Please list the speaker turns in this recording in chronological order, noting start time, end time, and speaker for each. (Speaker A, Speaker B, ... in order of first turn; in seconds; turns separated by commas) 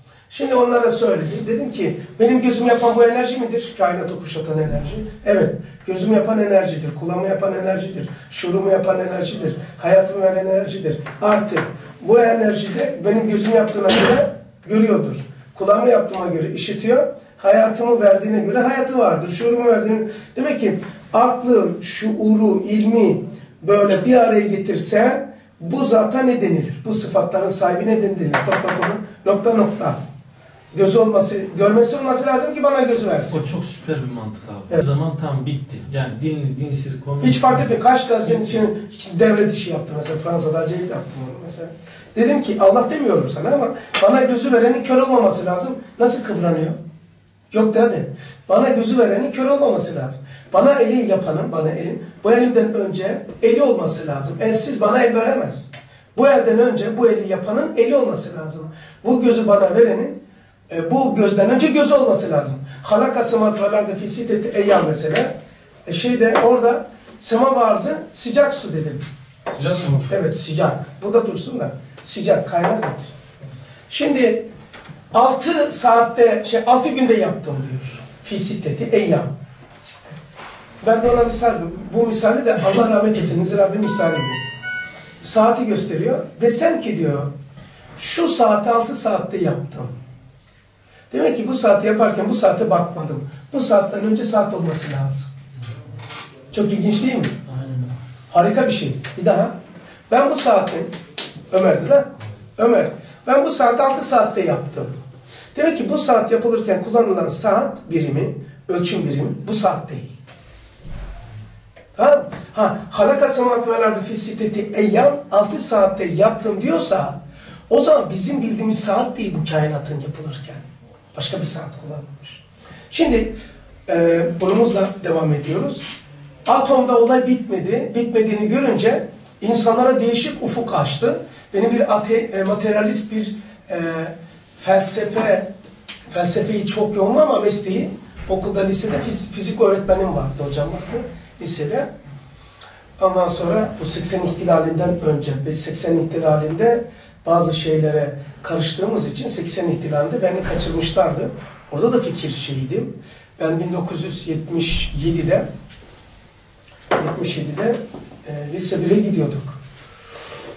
Speaker A: 0.3-30.0, Speaker A: 30.7-33.4, Speaker B: 33.3-37.7, Speaker A: 37.2-46.8, Speaker B: 38.2-38.6, Speaker A: 47.5-65.3, Speaker A: 65.8-69.1, Speaker B: 69.6-70.0, Speaker A: 69.6-73.1, Speaker A: 73.9-74.5, Speaker A: 75.1-80.2, Speaker A: 80.8-84.4, Speaker A: 85.2-87.3, Speaker A: 88.0-89.9, Speaker A: 91.1-95.3, Speaker A: 96.5-97.5, Speaker B: 97.5-97.9, Speaker A: 98.3-99.6, Speaker A: 100.1-100.9, Speaker A: 101.5-105.0, Speaker A: 105.5-110.1, Speaker A: 112.0-117.2, Speaker A: 117.7-123.3, Speaker A: 123.9-125.9, Speaker A: 126.5-135.5, Speaker A: 136.1-141.9, Speaker A: 143.0-155.5, Speaker A: 156.9-159.6